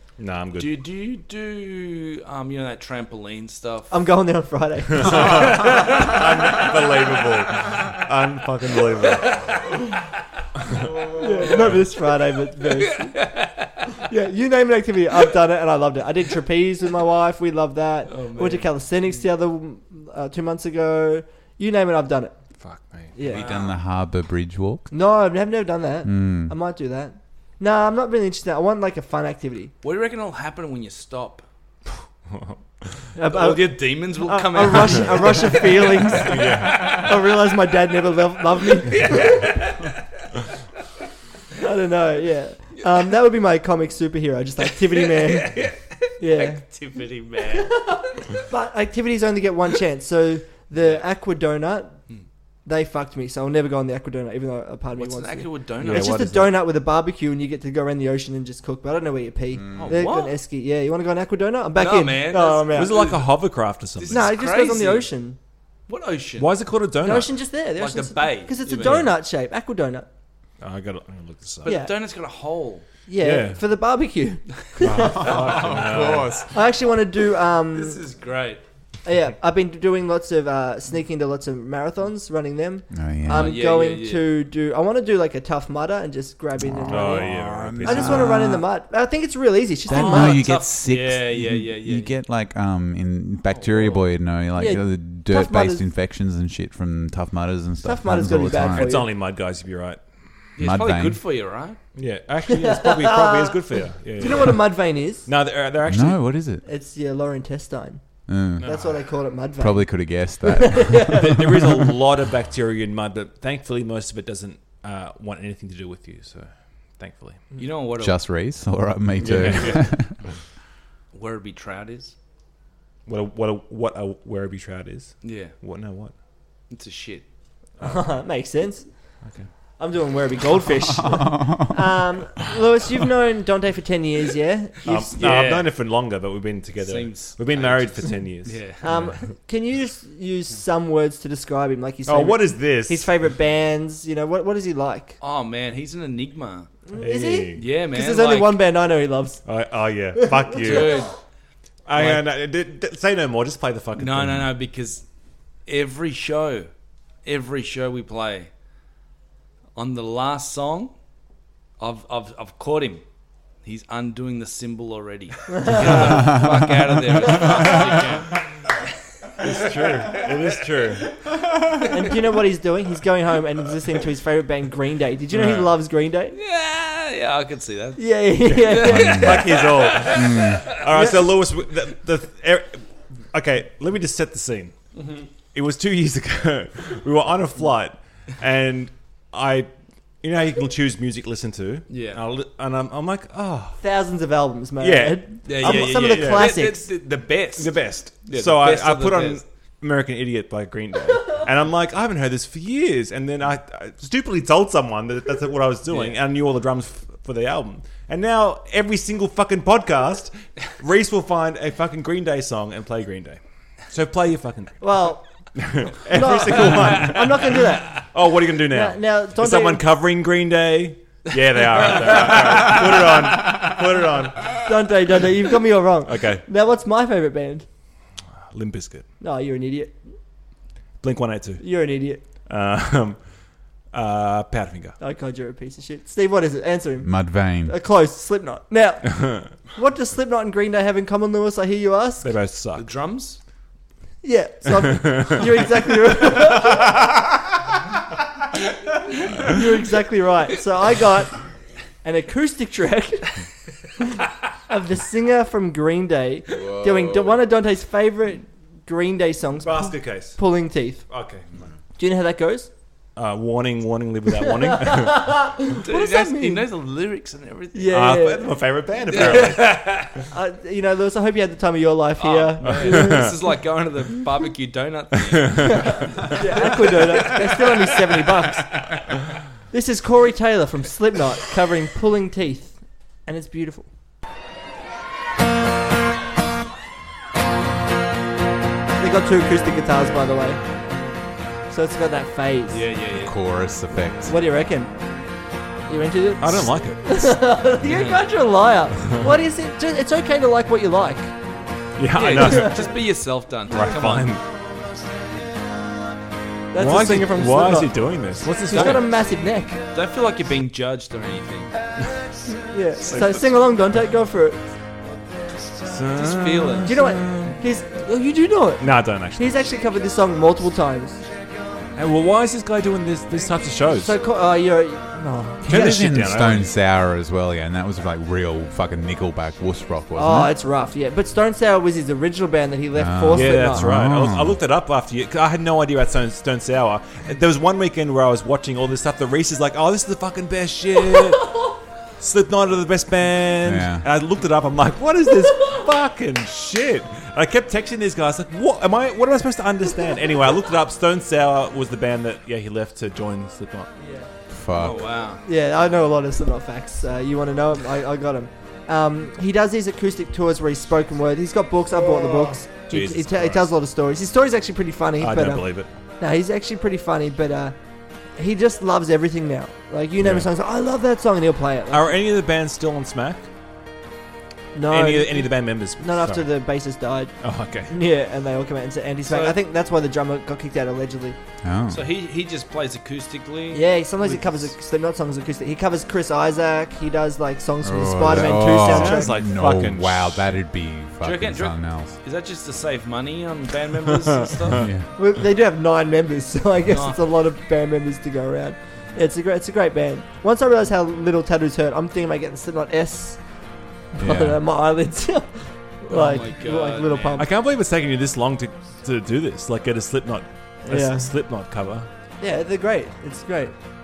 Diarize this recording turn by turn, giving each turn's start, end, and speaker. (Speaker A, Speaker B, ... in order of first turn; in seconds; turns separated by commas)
Speaker A: 0.2-0.8, Speaker B: 0.6-4.0, Speaker C: 3.9-6.0, Speaker A: 4.9-9.7, Speaker B: 5.2-6.7, Speaker B: 9.0-9.9, Speaker A: 10.7-11.8, Speaker B: 11.0-11.7, Speaker C: 11.2-13.2, Speaker B: 12.6-14.0, Speaker C: 14.0-22.4, Speaker B: 18.1-18.7, Speaker A: 22.6-23.1, Speaker C: 23.1-23.5, Speaker D: 23.2-24.9, Speaker B: 23.3-23.8, Speaker C: 24.9-29.7, Speaker D: 26.1-26.5, Speaker B: 29.8-31.4, Speaker A: 32.3-33.0, Speaker C: 33.1-39.6, Speaker B: 33.3-36.4, Speaker A: 36.1-37.1, Speaker B: 38.9-40.0, Speaker C: 41.6-46.7, Speaker B: 44.7-48.0, Speaker C: 47.5-52.0, Speaker B: 50.8-51.0, Speaker C: 52.6-63.1, Speaker B: 55.0-56.2, Speaker A: 55.8-56.6, Speaker D: 59.5-60.0, Speaker B: 59.8-60.4, Speaker B: 61.8-63.3, Speaker A: 62.7-64.3, Speaker B: 64.0-65.1, Speaker C: 64.0-65.4, Speaker B: 65.9-66.6, Speaker A: 66.4-67.3, Speaker C: 67.0-70.1, Speaker B: 67.8-69.1, Speaker A: 68.8-69.1, Speaker A: 70.6-71.7, Speaker B: 71.6-72.9, Speaker C: 71.6-71.9, Speaker C: 73.1-75.7, Speaker A: 73.2-73.6, Speaker A: 74.8-76.5, Speaker D: 75.0-76.5, Speaker B: 75.3-76.3, Speaker C: 76.5-78.0, Speaker B: 77.7-78.6, Speaker C: 79.0-90.5, Speaker D: 82.9-83.6, Speaker B: 83.3-84.3, Speaker D: 86.6-88.7, Speaker A: 86.9-88.4, Speaker D: 89.9-99.0, Speaker B: 89.9-92.1, Speaker B: 93.5-94.1, Speaker C: 94.5-95.8, Speaker C: 97.8-99.1, Speaker A: 98.7-100.0, Speaker B: 100.6-101.8, Speaker D: 100.6-101.2, Speaker A: 102.0-106.2, Speaker C: 102.5-105.3, Speaker D: 105.8-106.6, Speaker C: 106.6-111.9, Speaker D: 108.3-109.0, Speaker A: 108.6-109.0, Speaker D: 109.6-111.6, Speaker A: 111.2-117.5, Speaker B: 117.6-118.4, Speaker D: 118.0-120.1, Speaker A: 119.2-120.2, Speaker B: 121.1-122.1, Speaker A: 123.1-126.1, Speaker B: 125.2-125.6, Speaker B: 126.7-127.2, Speaker A: 127.8-128.1, Speaker C: 127.8-129.2, Speaker A: 129.2-129.5, Speaker C: 129.8-135.2, Speaker D: 131.0-131.8, Speaker A: 134.9-139.1, Speaker B: 135.1-135.8, Speaker B: 136.8-139.1, Speaker C: 138.8-145.2, Speaker A: 142.1-143.1, Speaker B: 145.2-146.7, Speaker C: 146.9-149.4, Speaker A: 147.0-147.7, Speaker B: 147.6-148.6, Speaker A: 149.4-151.1, Speaker C: 150.2-151.0, Speaker B: 150.6-151.2, Speaker A: 151.9-154.5, Speaker B: 151.9-152.2, Speaker B: 154.0-155.1, Speaker B: 155.7-156.7, Speaker B: 157.2-158.5, Speaker B: 159.8-160.9, Speaker B: 161.8-163.0, Speaker B: 163.6-168.4, Speaker C: 165.5-166.4, Speaker A: 169.4-171.1, Speaker B: 169.4-170.9, Speaker C: 171.9-176.4, Speaker A: 175.3-175.7, Speaker B: 176.3-180.9, Speaker C: 178.0-179.2, Speaker D: 178.9-179.5, Speaker A: 178.9-184.8, Speaker D: 180.1-180.7, Speaker C: 180.9-181.2, Speaker B: 184.9-185.3, Speaker A: 185.5-193.8, Speaker B: 191.9-192.2, Speaker C: 193.8-196.9, Speaker A: 194.8-196.6, Speaker B: 195.4-199.4, Speaker A: 197.6-224.6, Speaker B: 205.9-206.2, Speaker C: 214.8-218.2, Speaker B: 216.7-217.2, Speaker C: 218.7-219.8, Speaker B: 221.7-222.7, Speaker C: 224.6-227.7, Speaker A: 226.0-226.4, Speaker A: 228.5-229.1, Speaker C: 229.2-230.0, Speaker A: 231.0-235.0, Speaker C: 231.6-232.2, Speaker C: 235.0-242.3, Speaker D: 237.0-237.8, Speaker A: 242.2-242.9, Speaker B: 242.8-243.4, Speaker C: 244.2-246.9, Speaker C: 249.4-251.5, Speaker C: 252.0-253.4, Speaker C: 254.7-261.1, Speaker A: 259.6-260.4, Speaker A: 261.1-261.6, Speaker C: 262.0-262.7, Speaker A: 263.1-265.5, Speaker C: 264.6-266.7, Speaker B: 265.8-268.3, Speaker C: 267.7-269.7, Speaker A: 267.9-269.9, Speaker B: 269.1-270.2, Speaker C: 270.3-273.4, Speaker B: 272.2-278.9, Speaker A: 272.6-273.4, Speaker C: 276.2-278.9, Speaker C: 279.7-283.9, Speaker C: 289.0-290.6, Speaker C: 291.7-292.9, Speaker B: 292.7-293.4, Speaker D: 293.1-294.4, Speaker C: 294.3-294.9, Speaker C: 295.9-301.3, Speaker A: 296.4-297.0, Speaker B: 297.8-298.2, Speaker A: 302.0-302.9, Speaker B: 302.1-304.3, Speaker C: 302.2-302.9, Speaker A: 303.7-304.4, Speaker C: 306.7-308.0, Speaker A: 306.8-309.1, Speaker C: 308.6-309.8, Speaker B: 308.7-309.1, Speaker B: 309.9-311.8, Speaker C: 312.5-314.6, Speaker A: 313.1-313.4, Speaker A: 315.8-317.6, Speaker B: 316.1-317.0, Speaker C: 316.9-321.2, Speaker A: 318.8-319.6, Speaker A: 321.9-324.2, Speaker C: 324.0-325.7, Speaker D: 325.6-330.5, Speaker A: 325.6-326.7, Speaker C: 330.1-333.9, Speaker D: 332.9-334.6, Speaker A: 333.3-353.9, Speaker D: 343.6-344.1, Speaker C: 354.0-354.3, Speaker D: 354.5-355.1, Speaker B: 354.8-355.4, Speaker C: 355.4-367.8, Speaker A: 362.0-363.7, Speaker A: 365.2-365.9, Speaker C: 368.4-372.1, Speaker A: 370.2-370.5, Speaker A: 371.9-373.5, Speaker C: 374.8-377.4, Speaker A: 374.9-376.5, Speaker A: 377.4-377.9, Speaker C: 377.9-381.4, Speaker B: 379.3-379.6, Speaker D: 381.6-382.1, Speaker B: 381.9-384.0, Speaker C: 383.7-389.4, Speaker A: 384.2-384.5, Speaker D: 387.8-392.2, Speaker A: 388.4-390.4, Speaker B: 391.2-394.9, Speaker A: 394.2-394.9, Speaker D: 394.8-395.1, Speaker C: 395.1-403.4, Speaker B: 396.9-397.3, Speaker C: 404.1-407.5, Speaker D: 404.2-404.6, Speaker B: 406.1-407.4, Speaker A: 407.4-412.1, Speaker C: 410.9-411.3, Speaker C: 412.4-413.8